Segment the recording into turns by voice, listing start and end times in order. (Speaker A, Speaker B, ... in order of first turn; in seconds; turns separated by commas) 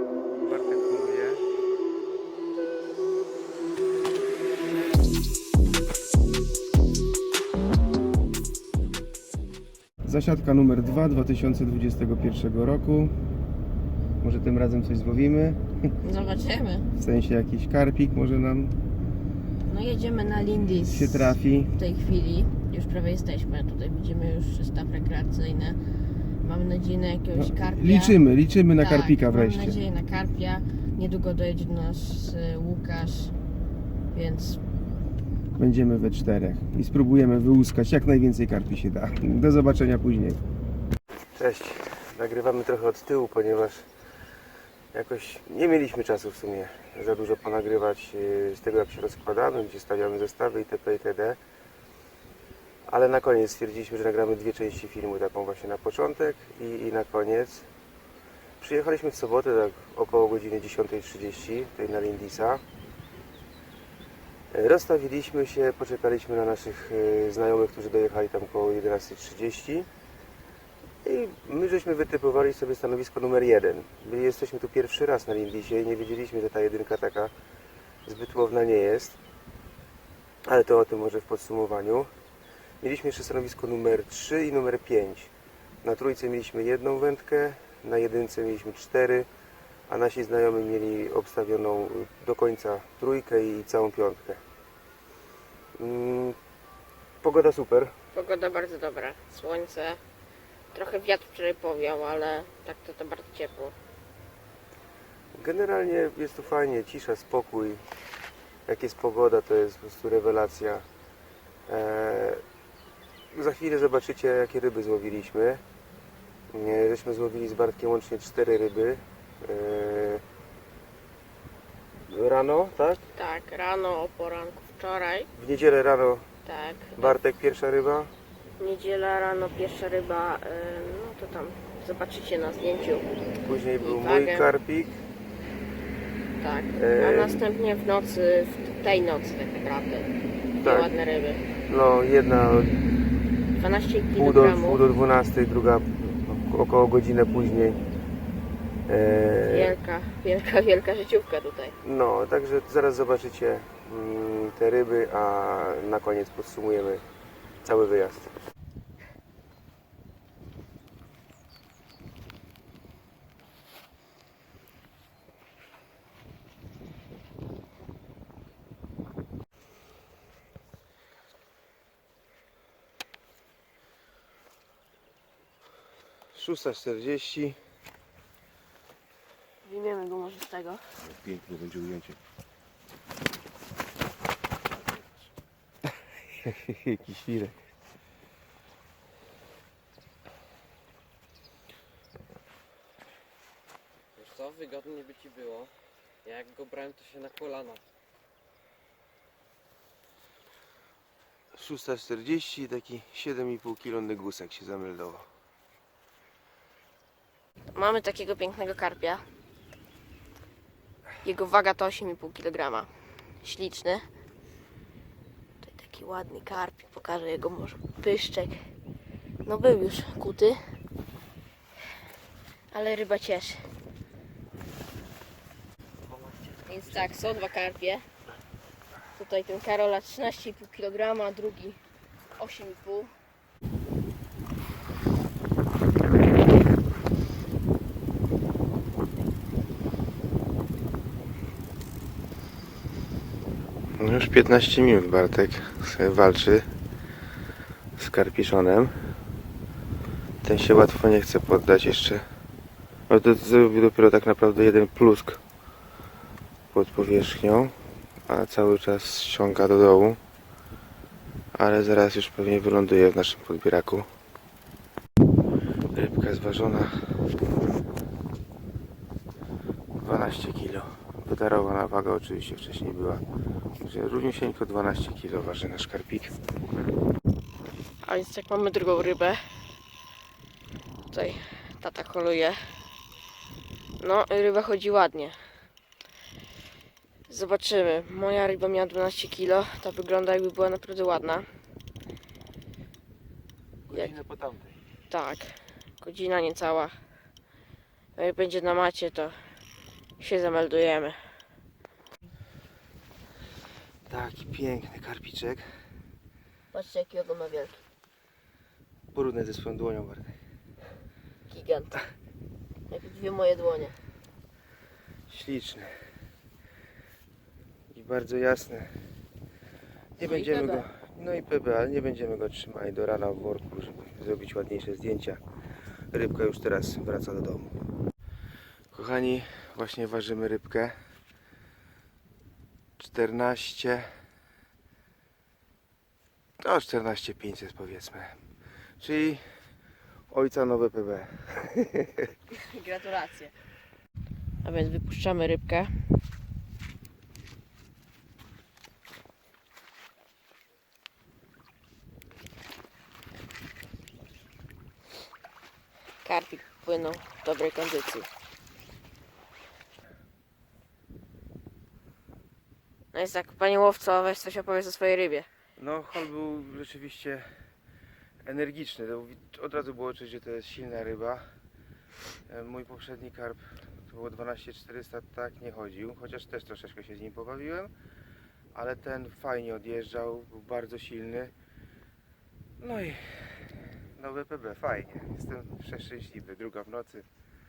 Speaker A: 0.4-1.4, Speaker A: 10.0-13.1, Speaker A: 14.2-15.6, Speaker B: 16.0-16.9, Speaker A: 17.0-18.8, Speaker B: 19.7-25.8, Speaker A: 20.9-21.7, Speaker B: 26.4-28.1, Speaker A: 27.3-29.8, Speaker B: 28.8-33.3, Speaker B: 34.1-34.6, Speaker A: 35.6-40.4, Speaker A: 41.4-43.9, Speaker A: 44.9-51.4, Speaker A: 52.9-57.7, Speaker A: 58.6-62.6, Speaker A: 64.5-69.9, Speaker A: 71.0-77.3, Speaker A: 78.0-79.2, Speaker A: 80.5-82.1, Speaker A: 82.8-85.3, Speaker A: 85.8-89.3, Speaker A: 89.9-94.4, Speaker A: 95.8-96.4, Speaker A: 97.2-97.9, Speaker B: 98.1-100.0, Speaker B: 100.7-103.7, Speaker A: 105.3-107.8, Speaker A: 108.7-110.8, Speaker A: 111.7-112.4, Speaker A: 113.3-115.6, Speaker A: 116.5-120.2, Speaker A: 122.1-123.0, Speaker B: 123.1-125.3, Speaker A: 125.4-126.2, Speaker B: 126.4-127.2, Speaker A: 127.0-128.1, Speaker B: 128.6-133.1, Speaker A: 133.4-134.9, Speaker B: 133.8-134.5, Speaker B: 136.4-140.1, Speaker A: 136.8-137.4, Speaker A: 140.6-140.9, Speaker B: 140.6-141.4, Speaker A: 141.7-142.9, Speaker B: 143.5-144.8, Speaker A: 144.1-147.8, Speaker A: 148.9-149.8, Speaker B: 149.4-151.7, Speaker A: 151.8-157.0, Speaker A: 157.6-158.3, Speaker A: 176.3-177.6, Speaker B: 179.6-180.9, Speaker A: 181.1-182.1, Speaker A: 186.4-187.6, Speaker C: 194.2-195.7, Speaker C: 196.2-197.8, Speaker A: 201.5-205.3, Speaker B: 207.7-209.2, Speaker B: 211.2-214.1, Speaker B: 215.6-218.6, Speaker B: 219.4-220.6, Speaker B: 222.7-223.6, Speaker B: 226.7-228.1, Speaker B: 229.1-231.8, Speaker B: 232.3-233.1, Speaker A: 244.0-246.7, Speaker A: 248.0-248.9, Speaker A: 250.4-252.2, Speaker A: 253.1-255.4, Speaker A: 256.7-257.7, Speaker A: 258.3-260.2, Speaker A: 261.6-264.1, Speaker A: 265.9-266.9, Speaker A: 269.9-273.2, Speaker A: 273.8-276.3, Speaker B: 278.0-279.4, Speaker B: 281.1-282.6, Speaker B: 284.0-285.4, Speaker B: 287.3-291.4, Speaker A: 293.9-294.7, Speaker B: 295.1-296.9, Speaker B: 298.1-299.4, Speaker B: 300.2-301.2, Speaker A: 304.1-305.6, Speaker B: 306.7-307.8, Speaker A: 309.1-310.4, Speaker B: 311.5-312.0, Speaker B: 312.9-313.9, Speaker A: 315.3-315.9, Speaker A: 317.9-318.9, Speaker A: 320.2-325.4, Speaker B: 320.2-320.9, Speaker A: 326.1-327.8, Speaker A: 328.9-330.9, Speaker A: 333.0-334.1, Speaker A: 336.6-338.3, Speaker A: 339.0-339.4, Speaker A: 340.3-342.3, Speaker B: 342.5-343.5, Speaker B: 344.6-345.9, Speaker B: 356.2-358.3, Speaker B: 363.1-365.5, Speaker A: 365.8-367.5, Speaker A: 368.4-371.4, Speaker A: 372.5-377.9, Speaker A: 378.7-381.5, Speaker A: 382.8-387.3